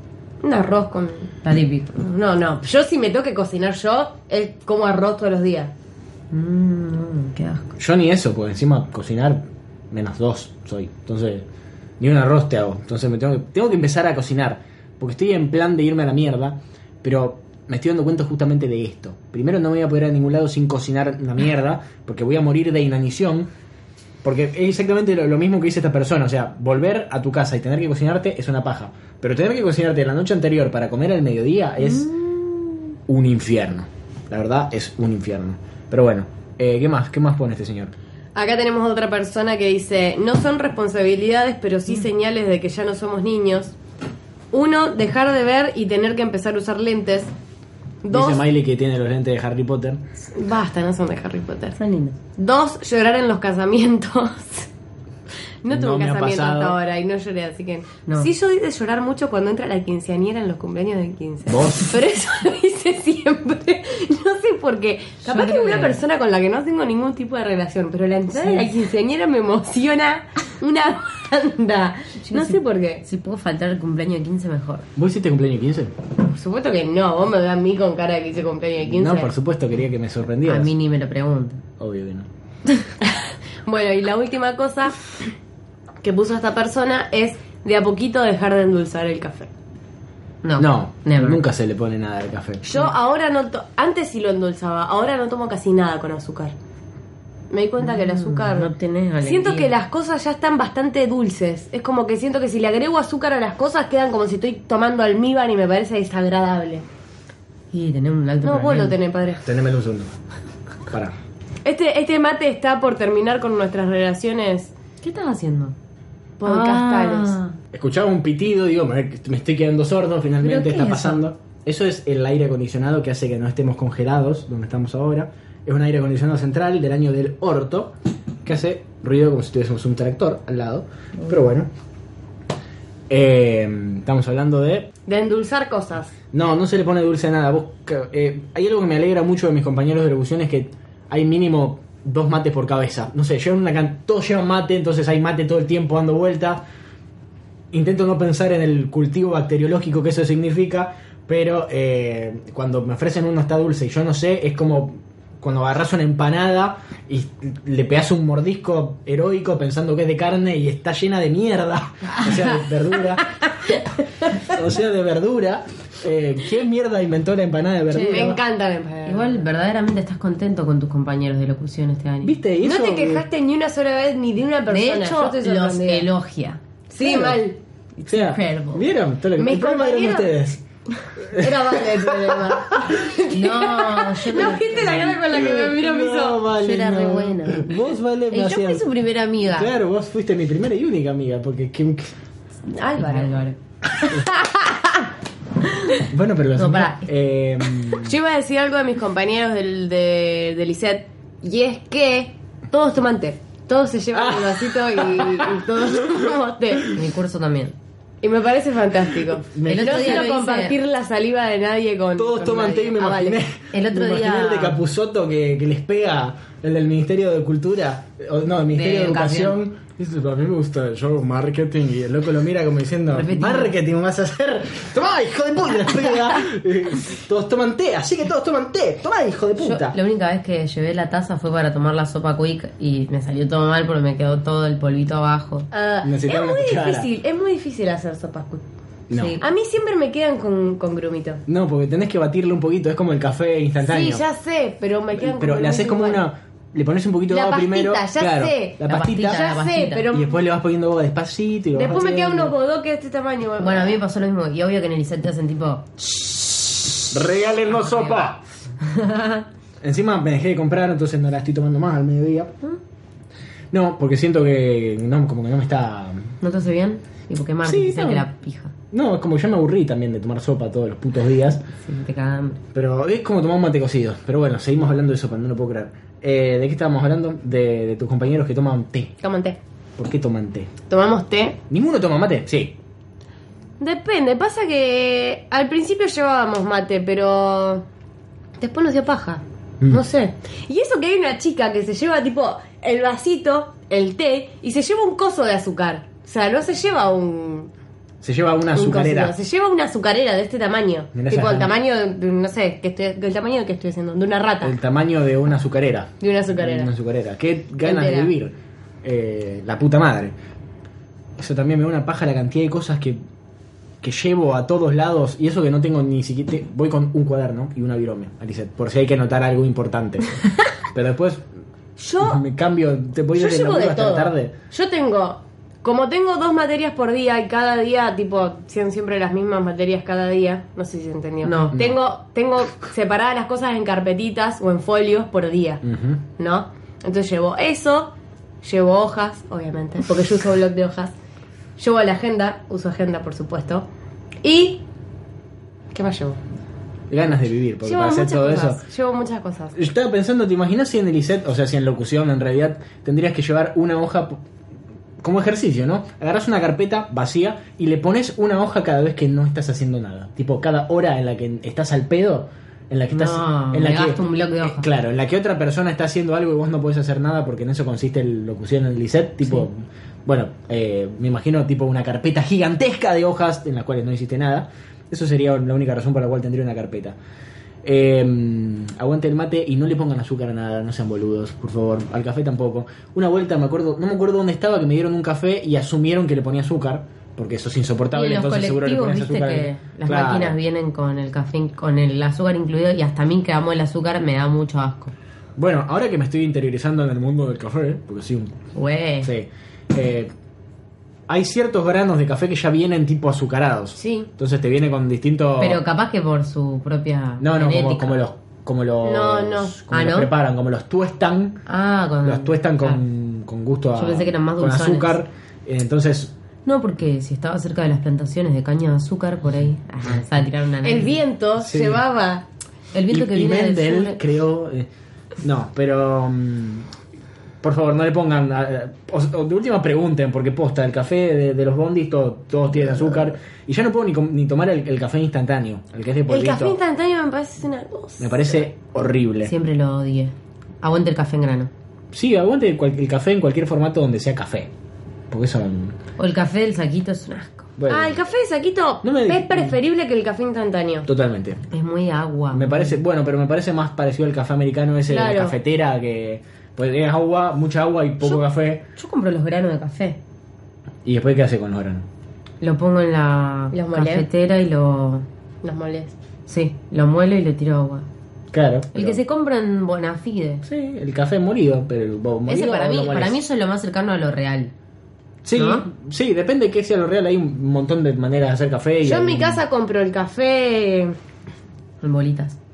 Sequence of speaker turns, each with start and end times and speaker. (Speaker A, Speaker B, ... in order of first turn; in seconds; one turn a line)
Speaker A: 0.4-1.4
Speaker B: 1.4-2.0
Speaker A: 1.9-5.7
Speaker B: 6.3-7.7
Speaker C: 7.8-11.5
Speaker C: 12.0-23.5
Speaker C: 24.2-32.2
Speaker C: 33.1-37.9
Speaker A: 38.4-43.8
Speaker A: 44.5-47.3
Speaker A: 48.0-48.4
Speaker C: 48.1-50.0
Speaker A: 50.3-51.8
Speaker B: 51.8-52.2
Speaker A: 52.4-54.7
Speaker A: 55.6-73.0
Speaker C: 55.7-56.8
Speaker B: 58.1-58.3
Speaker C: 61.5-61.9
Speaker B: 65.3-66.0
Speaker B: 68.3-68.7
Speaker B: 72.2-74.9
Speaker C: 75.0-75.9
Speaker A: 76.2-79.3
Speaker C: 78.8-80.7
Speaker B: 80.5-81.6
Speaker C: 81.8-82.3
Speaker A: 83.0-85.1
Speaker A: 86.0-89.5
Speaker B: 90.4-91.4
Speaker C: 90.6-92.7
Speaker A: 92.6-96.5
Speaker A: 97.5-106.8
Speaker B: 97.8-99.7
Speaker B: 107.7-109.0
Speaker A: 108.4-109.4
Speaker C: 109.4-110.2
Speaker C: 110.9-111.2
Speaker A: 111.6-114.7
Speaker B: 115.0-115.8
Speaker A: 116.4-117.4
Speaker B: 116.5-117.6
Speaker C: 117.7-131.7
Speaker B: 120.4-121.2
Speaker C: 133.1-134.9
Speaker A: 135.1-136.1
Speaker C: 136.3-146.7
Speaker C: 147.7-163.3
Speaker C: 164.4-168.4
Speaker B: 167.9-168.4
Speaker A: 168.0-169.5
Speaker B: 169.1-172.3
Speaker C: 172.2-173.2
Speaker A: 172.6-176.1
Speaker B: 174.7-176.6
Speaker A: 176.9-177.6
Speaker C: 177.0-177.4
Speaker B: 178.0-178.9
Speaker C: 178.1-180.6
Speaker A: 179.4-180.3
Speaker C: 181.2-182.9
Speaker A: 181.3-186.4
Speaker B: 183.3-185.2
Speaker C: 184.9-188.8
Speaker B: 186.6-189.7
Speaker C: 189.5-192.1
Speaker A: 192.7-193.5
Speaker B: 193.0-193.6
Speaker A: 194.1-194.9
Speaker C: 196.0-198.2
Speaker B: 196.6-197.1
Speaker A: 197.9-207.0
Speaker C: 204.1-206.2
Speaker B: 206.9-207.8
Speaker A: 208.2-213.4
Speaker C: 209.5-210.3
Speaker B: 209.7-210.8
Speaker C: 212.2-230.0
Speaker B: 213.7-214.8
Speaker B: 218.7-219.6
Speaker B: 223.1-223.8
Speaker B: 229.6-235.7
Speaker A: 235.7-238.6
Speaker C: 236.0-237.1
Speaker C: 239.1-239.4
Speaker B: 239.1-239.4
Speaker A: 239.4-241.4
Speaker C: 241.5-244.2
Speaker A: 243.8-246.2
Speaker C: 245.2-252.6
Speaker A: 247.3-250.4
Speaker B: 248.9-250.1
Speaker A: 251.7-254.0
Speaker B: 253.6-255.9
Speaker C: 257.1-258.4
Speaker B: 257.8-258.3
Speaker B: 258.8-259.4
Speaker C: 259.8-262.6
Speaker C: 263.7-266.4
Speaker B: 266.4-268.7
Speaker C: 267.6-268.3
Speaker C: 268.9-271.6
Speaker B: 271.8-272.6
Speaker C: 272.7-279.1
Speaker A: 279.2-279.6
Speaker C: 280.0-280.7
Speaker A: 280.9-281.6
Speaker C: 281.7-282.8
Speaker A: 283.8-287.9
Speaker A: 288.6-297.7
Speaker C: 298.2-299.4
Speaker A: 298.7-304.8
Speaker C: 301.1-301.7
Speaker C: 304.6-310.4
Speaker A: 306.2-306.9
Speaker A: 307.8-308.3
Speaker C: 311.4-313.2
Speaker C: 314.0-320.4
Speaker C: 320.9-321.5
Speaker A: 322.0-322.4
Speaker C: 322.2-324.5
Speaker A: 323.3-335.8
Speaker B: 331.4-331.8
Speaker C: 331.7-332.0
Speaker C: 335.8-336.2
Speaker A: 336.4-341.1
Speaker A: 341.8-343.9
Speaker A: 344.4-344.8
Speaker A: 345.9-346.4
Speaker C: 347.1-348.8
Speaker A: 347.8-349.8
Speaker C: 349.8-354.4
Speaker C: 355.2-377.2
Speaker B: 363.1-364.9
Speaker C: 377.8-390.6
Speaker B: 388.1-395.1
Speaker C: 395.6-398.5
Speaker B: 398.8-399.3
Speaker C: 399.2-400.3
Speaker C: 401.3-405.8
Speaker B: 405.6-408.2
Speaker C: 407.4-411.6
Speaker A: 409.0-409.8
Speaker B: 409.9-410.3
Speaker B: 411.7-413.0
Speaker C: 412.2-416.3
Speaker B: 413.9-415.2
Speaker B: 416.7-421.2
Speaker A: 420.8-422.5
Speaker C: 421.6-422.0
Speaker B: 422.9-424.2
Speaker C: 423.1-424.9
Speaker C: 425.4-426.9
Speaker C: 427.6-436.8
Speaker A: 436.3-438.6
Speaker C: 438.2-439.5
Speaker B: 439.4-441.7
Speaker C: 442.1-444.7
Speaker C: 445.3-446.0
Speaker B: 446.2-447.7
Speaker C: 447.8-448.2
Speaker A: 447.9-451.1
Speaker C: 449.0-449.8
Speaker C: 451.1-451.6
Speaker B: 451.7-453.0
Speaker C: 452.5-458.9
Speaker A: 455.1-455.6
Speaker B: 459.0-460.2
Speaker C: 461.1-462.1
Speaker B: 462.6-465.3
Speaker A: 463.7-464.3
Speaker A: 465.6-466.1
Speaker B: 466.5-468.1
Speaker C: 468.5-469.2
Speaker B: 468.9-470.6
Speaker C: 470.6-473.4
Speaker B: 472.5-474.7
Speaker C: 475.4-479.6
Speaker B: 475.6-475.9
Speaker A: 479.0-481.2
Speaker B: 482.0-482.6